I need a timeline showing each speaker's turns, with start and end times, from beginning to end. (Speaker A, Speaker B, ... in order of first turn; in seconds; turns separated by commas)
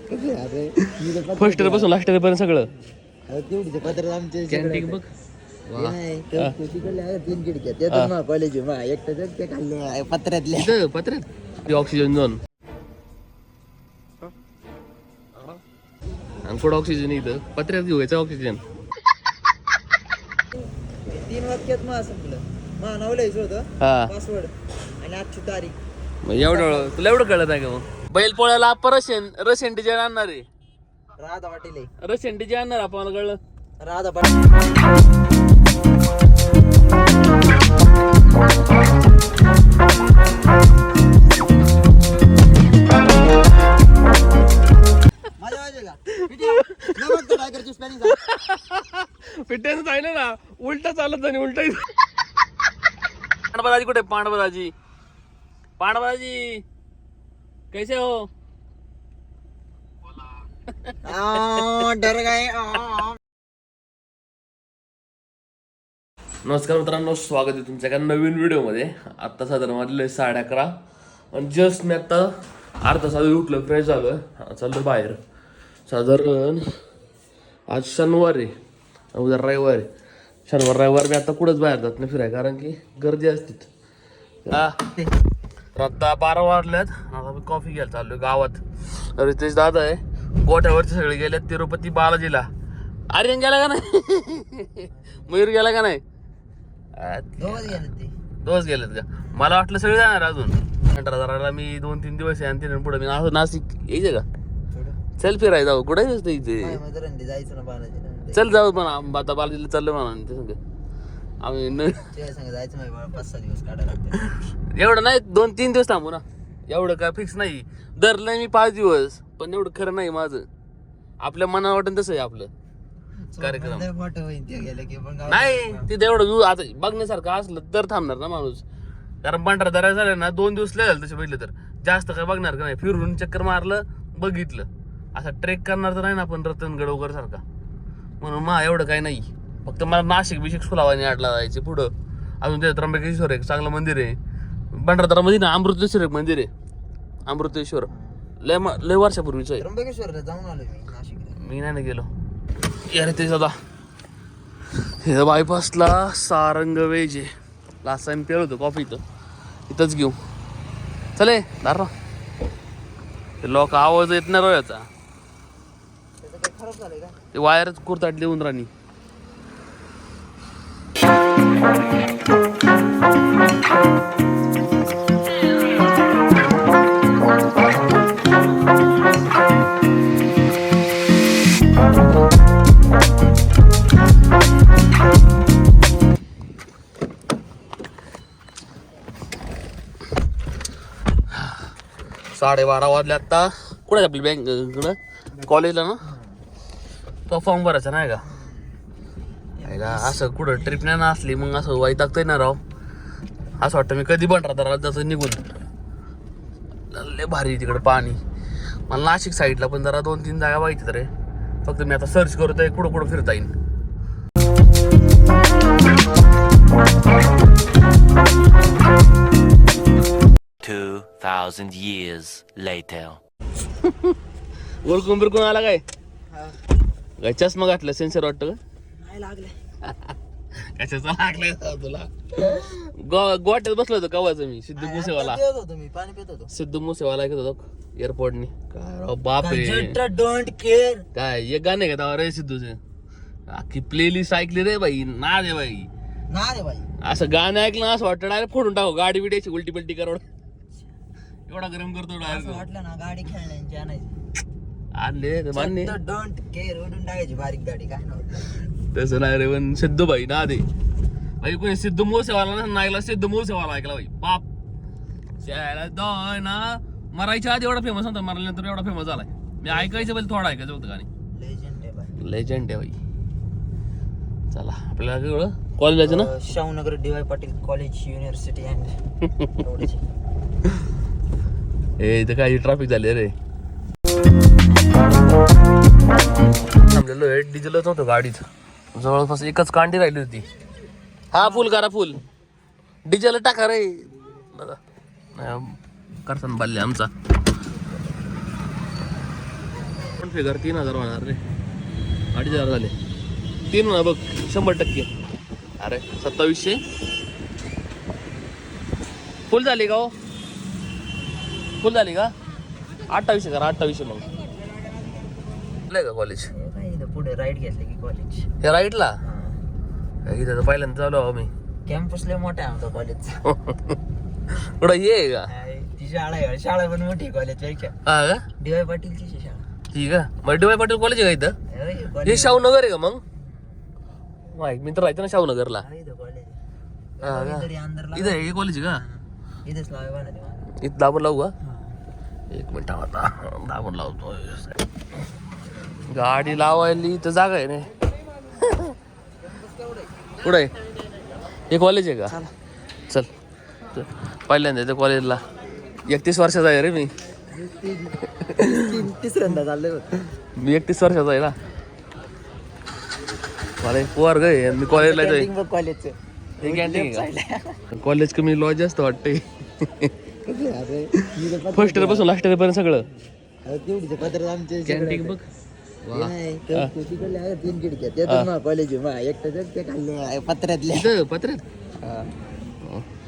Speaker A: 0.1-1.9, Speaker B: 1.4-2.7, Speaker A: 3.3-5.0, Speaker B: 4.5-5.1, Speaker B: 5.7-6.5, Speaker A: 5.8-10.7, Speaker B: 10.5-12.4, Speaker B: 16.4-18.6, Speaker A: 21.1-25.8, Speaker B: 23.8-24.1, Speaker B: 26.2-30.4, Speaker A: 26.3-27.0, Speaker A: 31.2-31.9, Speaker B: 32.0-33.4, Speaker A: 33.8-34.5, Speaker A: 45.4-48.2, Speaker B: 46.2-47.1, Speaker B: 48.1-51.8, Speaker B: 53.5-54.7, Speaker B: 55.8-56.6, Speaker B: 57.7-58.3, Speaker A: 61.0-63.2, Speaker B: 66.4-70.7, Speaker B: 71.3-72.3, Speaker B: 72.8-75.2, Speaker B: 75.9-76.7, Speaker B: 77.7-78.5, Speaker B: 79.1-79.9, Speaker B: 80.5-83.7, Speaker B: 84.5-84.8, Speaker B: 85.7-92.5, Speaker B: 93.1-96.0, Speaker A: 94.9-95.5, Speaker B: 97.0-97.8, Speaker A: 97.4-98.1, Speaker B: 98.4-104.2, Speaker A: 99.2-99.5, Speaker A: 104.7-105.0, Speaker B: 105.2-106.8, Speaker A: 106.6-108.7, Speaker B: 108.3-110.6, Speaker B: 111.4-112.1, Speaker A: 112.0-114.4, Speaker B: 114.7-120.5, Speaker B: 121.2-122.5, Speaker A: 123.3-125.9, Speaker B: 123.4-123.9, Speaker B: 125.3-128.6, Speaker B: 129.2-137.4, Speaker B: 138.2-141.9, Speaker B: 142.4-144.2, Speaker B: 144.7-146.5, Speaker B: 147.3-147.9, Speaker A: 147.8-148.2, Speaker B: 148.4-149.6, Speaker A: 149.6-151.4, Speaker B: 151.4-152.1, Speaker B: 152.9-153.6, Speaker B: 155.0-157.3, Speaker B: 157.8-159.0, Speaker B: 159.7-160.2, Speaker B: 161.2-161.9, Speaker B: 163.4-164.9, Speaker A: 166.2-167.2, Speaker B: 167.3-168.7, Speaker B: 192.3-196.0, Speaker A: 196.0-196.4, Speaker B: 197.3-198.2, Speaker A: 198.2-198.7, Speaker A: 199.6-200.8, Speaker B: 199.6-202.6, Speaker B: 203.6-205.4, Speaker B: 206.9-208.2, Speaker B: 208.9-211.1, Speaker B: 211.6-213.5, Speaker C: 220.6-223.2, Speaker B: 223.8-224.1, Speaker B: 224.8-225.8, Speaker A: 226.3-226.6, Speaker B: 227.2-228.6, Speaker A: 229.0-229.5, Speaker B: 229.9-230.1, Speaker B: 230.7-232.1, Speaker A: 232.3-232.8, Speaker B: 233.0-235.4, Speaker A: 234.7-236.5, Speaker B: 236.5-239.9, Speaker A: 239.4-241.1, Speaker B: 241.1-242.8, Speaker B: 243.5-245.9, Speaker A: 246.3-246.9, Speaker B: 247.0-250.2, Speaker B: 251.5-252.6, Speaker A: 252.2-254.1, Speaker B: 255.0-255.9, Speaker A: 255.5-258.6, Speaker B: 258.9-260.6, Speaker B: 261.4-264.4, Speaker B: 265.4-271.1, Speaker A: 269.6-270.1, Speaker A: 271.3-272.1, Speaker B: 272.2-272.9, Speaker B: 274.5-276.3, Speaker A: 276.0-278.9, Speaker A: 279.5-280.0, Speaker B: 282.0-283.3, Speaker B: 286.7-290.5, Speaker B: 291.3-292.2, Speaker A: 291.4-291.7, Speaker B: 293.1-294.8, Speaker B: 295.3-297.1, Speaker B: 300.1-301.4, Speaker B: 302.3-302.9, Speaker A: 302.5-302.7, Speaker B: 303.7-305.1, Speaker B: 305.8-306.8, Speaker B: 309.5-310.1, Speaker B: 311.8-312.3, Speaker B: 313.1-314.3, Speaker B: 315.9-316.5, Speaker A: 316.5-318.5, Speaker B: 318.6-319.2, Speaker A: 319.2-319.6, Speaker B: 320.2-321.5, Speaker A: 321.9-323.4, Speaker B: 323.4-324.0, Speaker B: 324.5-325.5, Speaker A: 325.5-327.9, Speaker B: 328.0-328.4, Speaker A: 328.6-329.6, Speaker B: 329.9-331.6, Speaker A: 331.7-332.6, Speaker B: 332.2-333.2, Speaker A: 333.3-333.9, Speaker B: 334.5-335.8, Speaker A: 335.8-336.6, Speaker A: 337.2-340.7, Speaker B: 337.2-339.0, Speaker B: 340.8-341.5, Speaker A: 341.6-341.9, Speaker B: 342.5-344.8, Speaker A: 346.1-347.0, Speaker B: 346.1-347.9, Speaker B: 348.6-348.9, Speaker A: 349.4-350.1, Speaker B: 350.4-350.7, Speaker B: 351.7-352.4, Speaker B: 353.9-355.4, Speaker B: 356.1-357.1, Speaker A: 357.5-360.2, Speaker B: 358.5-358.9, Speaker B: 360.6-361.6, Speaker B: 363.8-365.5, Speaker A: 364.6-367.8, Speaker B: 366.6-367.3, Speaker B: 368.0-370.1, Speaker A: 370.4-372.3, Speaker B: 371.7-373.1, Speaker A: 373.1-375.4, Speaker B: 374.9-375.4, Speaker B: 376.1-376.9, Speaker A: 376.1-381.1, Speaker B: 380.9-381.6, Speaker A: 382.0-382.3